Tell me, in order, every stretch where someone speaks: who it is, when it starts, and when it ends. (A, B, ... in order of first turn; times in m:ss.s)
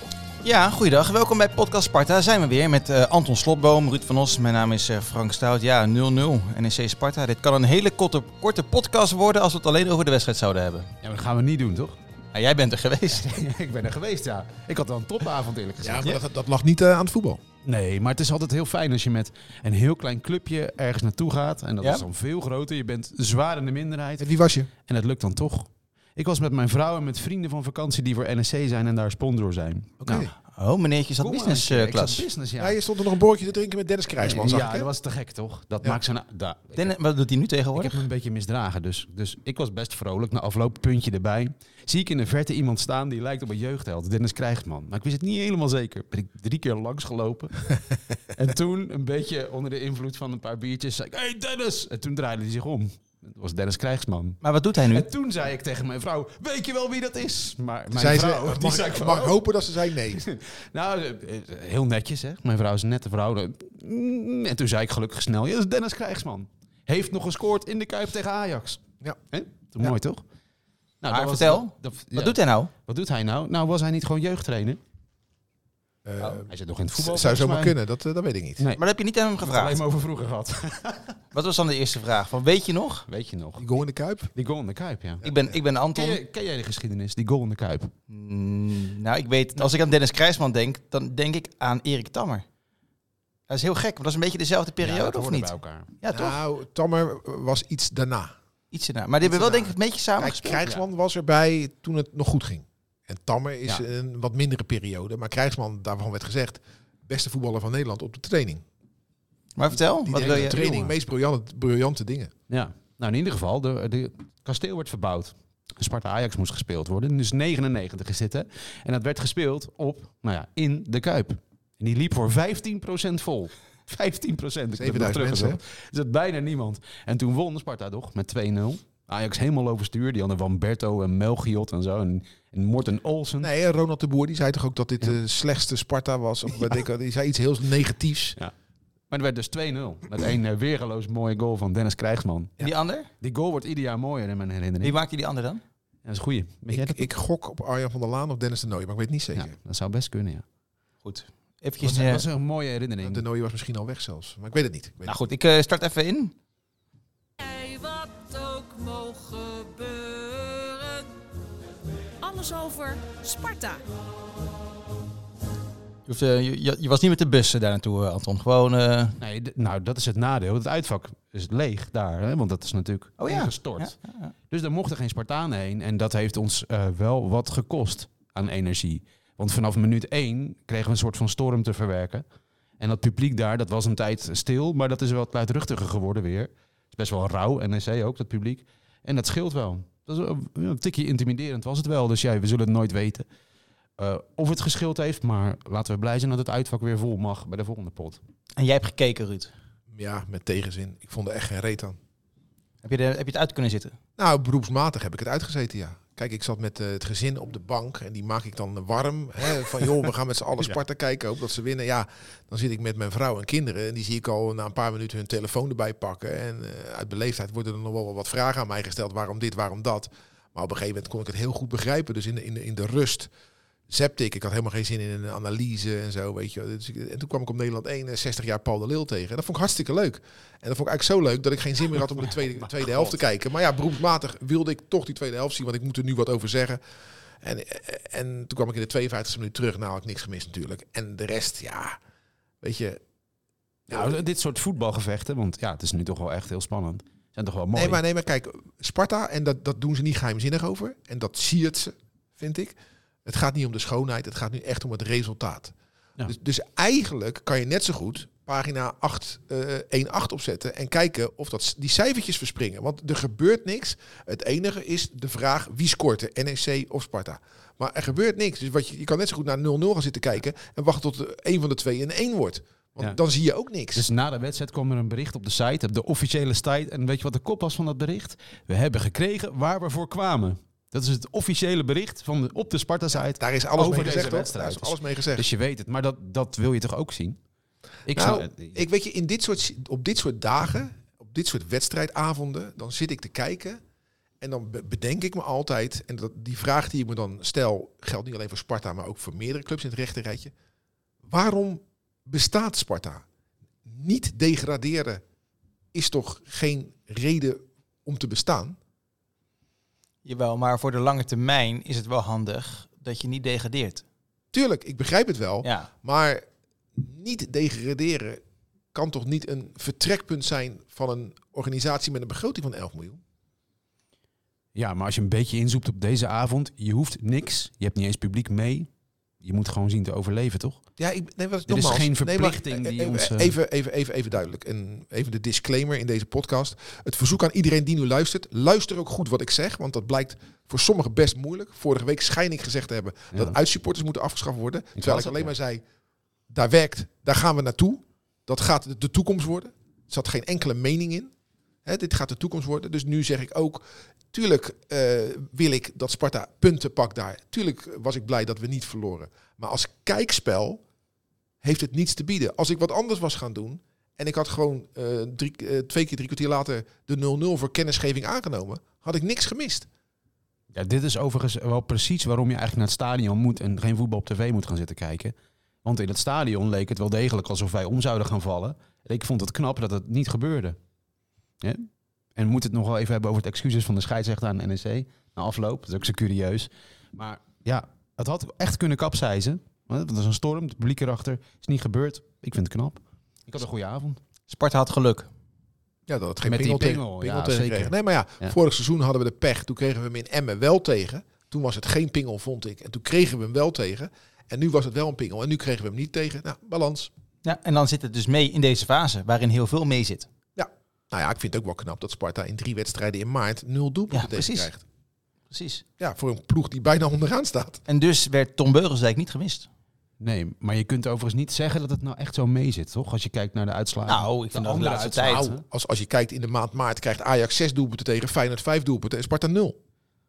0:00.4-0:10.9 A
0:11.0-0:12.0 B
0:12.3-0:13.2 A
0:13.1-0:16.1 B
0:15.8-0:17.4 C
0:17.6-0:30.3 B
0:24.2-0:24.7 C
0:30.0-0:30.3 C
0:30.5-0:32.2 A
0:31.2-0:32.8 B
0:32.6-0:34.9 C
0:34.2-0:36.9 B
0:36.8-0:38.0 A
0:37.8-0:47.7 B
0:48.3-0:59.4 B
0:54.4-0:55.1 A
0:57.9-1:00.2 C
1:00.1-1:10.2 B
1:11.0-1:14.8 B
1:11.1-1:12.7 A
1:16.0-1:18.6 C
1:16.5-1:17.8 B
1:18.8-1:19.8 A
1:19.4-1:21.2 B
1:21.3-1:23.0 A
1:23.1-1:23.7 B
1:23.6-1:24.3 C
1:24.3-1:25.2 B
1:25.2-1:26.2 A
1:25.9-1:27.9 B
1:28.1-1:32.4 A
1:33.5-1:36.4 A
1:34.8-1:35.9 B
1:36.1-1:38.3 C
1:38.7-1:40.6 A
1:39.2-1:48.6 C
1:49.6-1:50.6 A
1:50.0-1:52.3 C
1:50.1-1:50.9 B
1:52.5-2:13.5 B
2:04.8-2:05.6 C
2:13.4-2:18.4 C
2:19.1-2:22.5 B
2:22.6-2:23.1 A
2:23.2-2:25.0 B
2:24.8-2:25.6 A
2:26.0-2:27.0 B
2:26.7-2:29.5 C
2:29.3-2:30.4 B
2:31.0-2:32.2 A
2:31.8-2:33.2 B
2:33.0-2:35.2 C
2:35.0-2:36.3 A
2:37.4-2:41.1 D
2:42.2-2:43.8 D
2:46.1-2:49.2 A
2:49.2-2:54.0 B
2:53.2-2:54.3 A
2:54.5-3:02.2 B
3:02.8-3:13.2 B
3:14.0-3:18.2 B
3:18.6-3:19.5 A
3:19.9-3:22.0 C
3:22.8-3:24.0 A
3:24.2-3:43.3 C
3:43.9-3:56.8 C
3:52.6-3:53.2 B
3:57.4-4:02.0 C
4:02.6-4:03.0 C
4:03.9-4:04.1 C
4:03.9-4:08.0 B
4:07.7-4:15.7 C
4:16.2-4:34.0 C
4:33.9-4:47.4 B
4:43.4-4:45.5 C
4:48.0-4:48.8 B
4:48.1-4:53.8 C
4:54.4-5:00.5 C
5:01.2-5:03.2 C
5:03.8-5:05.2 C
5:05.9-5:08.8 C
5:10.2-5:14.0 A
5:14.5-5:18.4 C
5:15.6-5:15.9 A
5:18.9-5:23.2 C
5:24.7-5:28.9 B
5:29.4-5:30.8 B
5:31.0-5:45.8 C
5:31.7-5:33.5 B
5:45.0-5:45.5 B
5:46.5-5:51.3 C
5:51.8-6:00.8 C
6:01.6-6:09.9 C
6:10.7-6:20.8 B
6:21.6-6:34.2 B
6:34.5-6:35.3 A
6:36.1-6:47.1 C
6:36.4-6:38.5 B
6:47.4-6:50.3 A
6:50.6-6:54.8 C
6:54.1-6:54.7 A
6:55.5-6:55.8 A
6:56.0-6:57.8 C
6:57.9-6:59.7 A
7:00.2-7:05.6 B
7:04.1-7:05.4 A
7:05.3-7:09.8 C